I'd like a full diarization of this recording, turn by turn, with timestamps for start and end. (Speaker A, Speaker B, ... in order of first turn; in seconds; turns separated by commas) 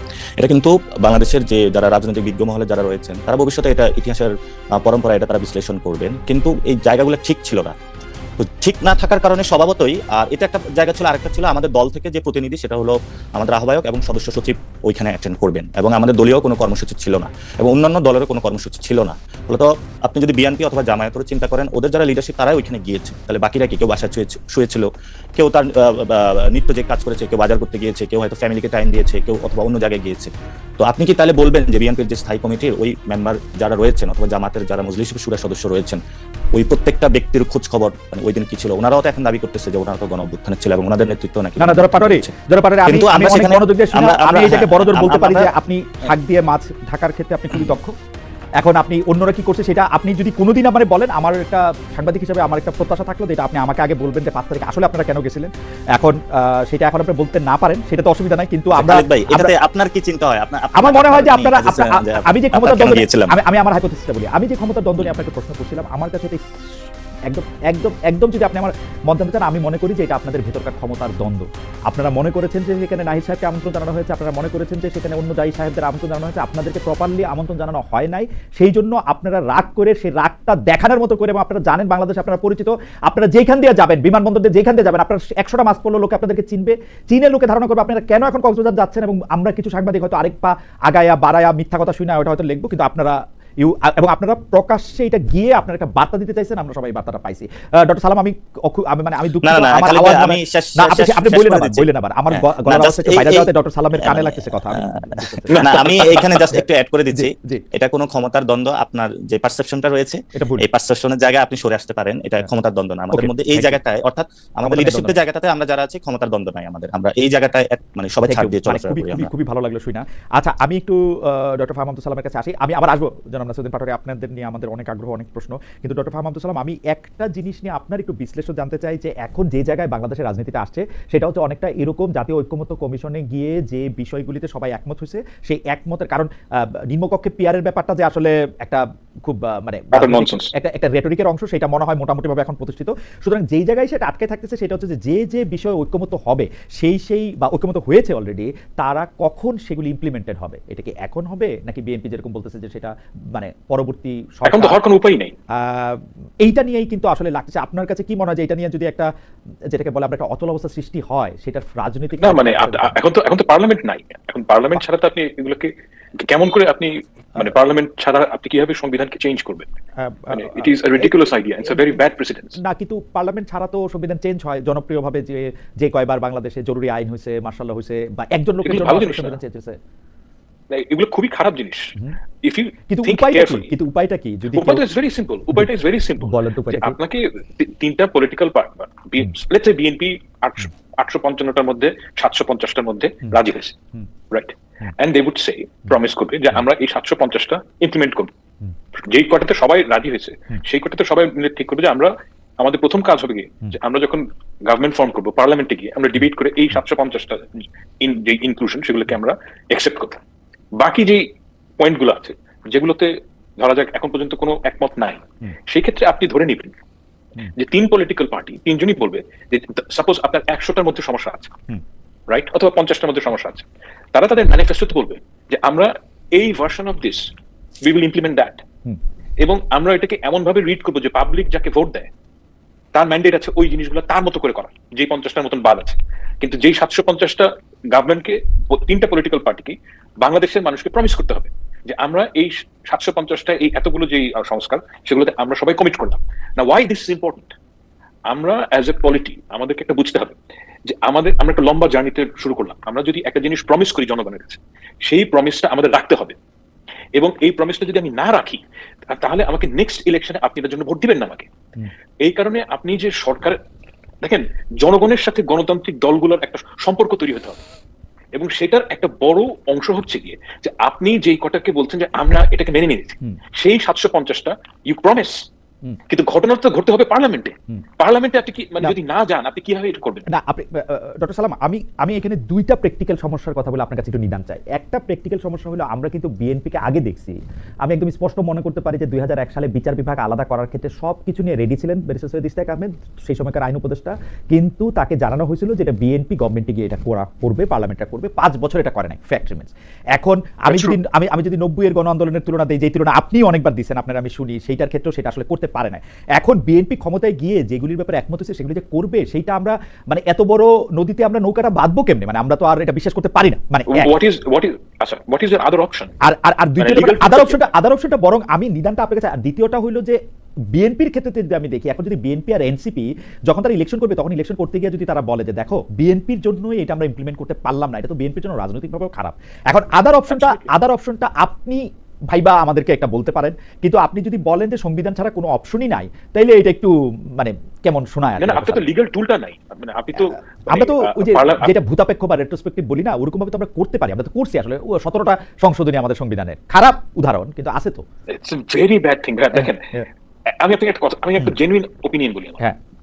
Speaker A: 0.4-7.8, Speaker A: 8.4-36.0, Speaker A: 36.5-42.3, Speaker B: 41.6-48.0, Speaker A: 42.9-45.5, Speaker B: 48.6-59.5, Speaker A: 58.7-63.4, Speaker B: 60.8-107.6, Speaker A: 99.4-103.5, Speaker A: 104.0-119.3, Speaker C: 105.5-106.5, Speaker B: 110.3-110.7, Speaker B: 113.1-113.8, Speaker B: 114.6-115.2, Speaker B: 118.2-154.8, Speaker C: 139.9-140.5, Speaker C: 154.4-155.3, Speaker B: 155.5-159.1, Speaker B: 159.7-163.0, Speaker C: 162.2-169.7, Speaker B: 170.0-171.1, Speaker C: 170.3-172.6, Speaker B: 171.7-172.0, Speaker B: 172.6-179.8, Speaker C: 178.7-179.4, Speaker C: 180.7-183.7, Speaker B: 182.9-184.8, Speaker C: 184.5-193.8, Speaker B: 185.5-187.0, Speaker C: 194.3-198.3, Speaker C: 199.0-210.2, Speaker C: 210.8-211.3, Speaker C: 211.8-216.7, Speaker C: 217.6-221.5, Speaker C: 222.3-227.3, Speaker C: 227.8-228.6, Speaker C: 229.4-232.1, Speaker C: 232.9-247.5, Speaker C: 248.3-256.4, Speaker C: 257.2-261.5, Speaker C: 262.2-263.6, Speaker C: 264.2-267.6, Speaker C: 268.3-275.4, Speaker C: 276.1-280.3, Speaker B: 280.3-314.1, Speaker C: 300.7-301.0, Speaker C: 313.9-316.1, Speaker B: 316.2-320.2, Speaker C: 316.8-317.7, Speaker B: 320.7-338.8, Speaker C: 330.3-330.7, Speaker C: 338.4-341.7, Speaker B: 340.7-348.0, Speaker C: 348.3-349.9, Speaker B: 349.5-350.1, Speaker C: 350.5-352.6